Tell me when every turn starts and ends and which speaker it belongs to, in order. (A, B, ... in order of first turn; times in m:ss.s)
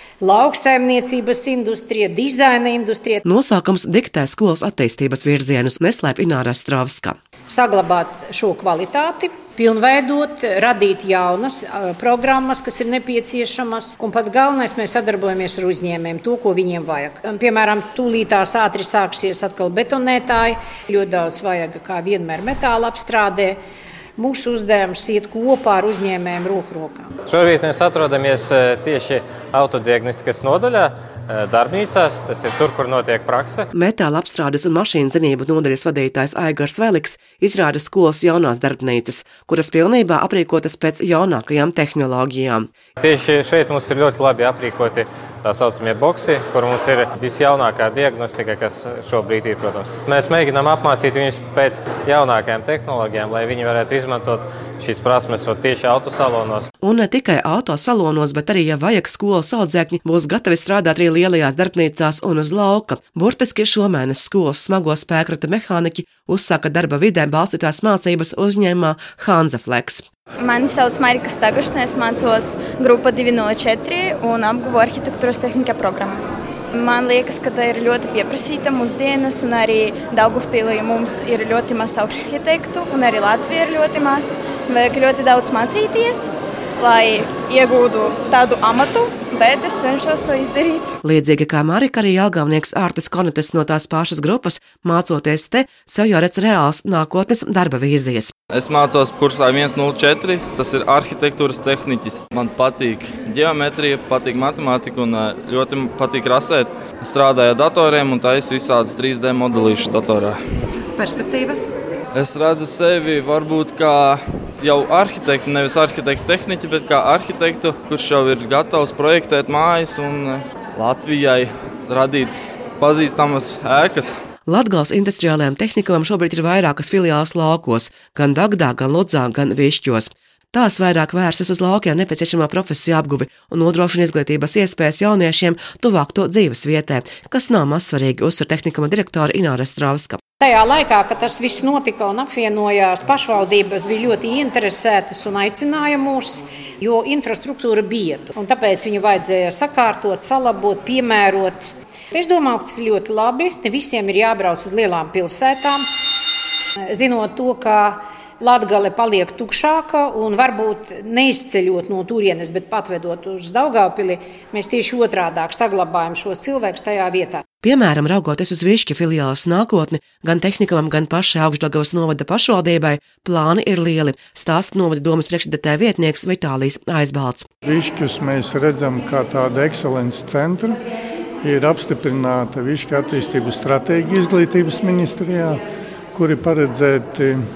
0:00.2-0:03.2 A
0:03.2-0:07.2 B
0:07.5-0:23.6 A
0:24.2-0:27.1 A
0:27.3-0:33.7 C
0:33.7-0:42.7 B
0:43.0-0:56.7 C
0:56.8-1:10.0 B
1:10.4-1:31.0 D
1:31.0-1:38.3 B
1:38.5-1:50.4 E
1:51.0-1:51.6 B
1:52.1-2:04.1 E
2:04.4-2:20.2 B
2:20.4-2:35.9 A
2:36.9-2:47.4 A
2:47.6-2:57.5 B
2:57.6-3:00.8 F
3:01.4-3:05.6 F
3:06.1-3:07.4 F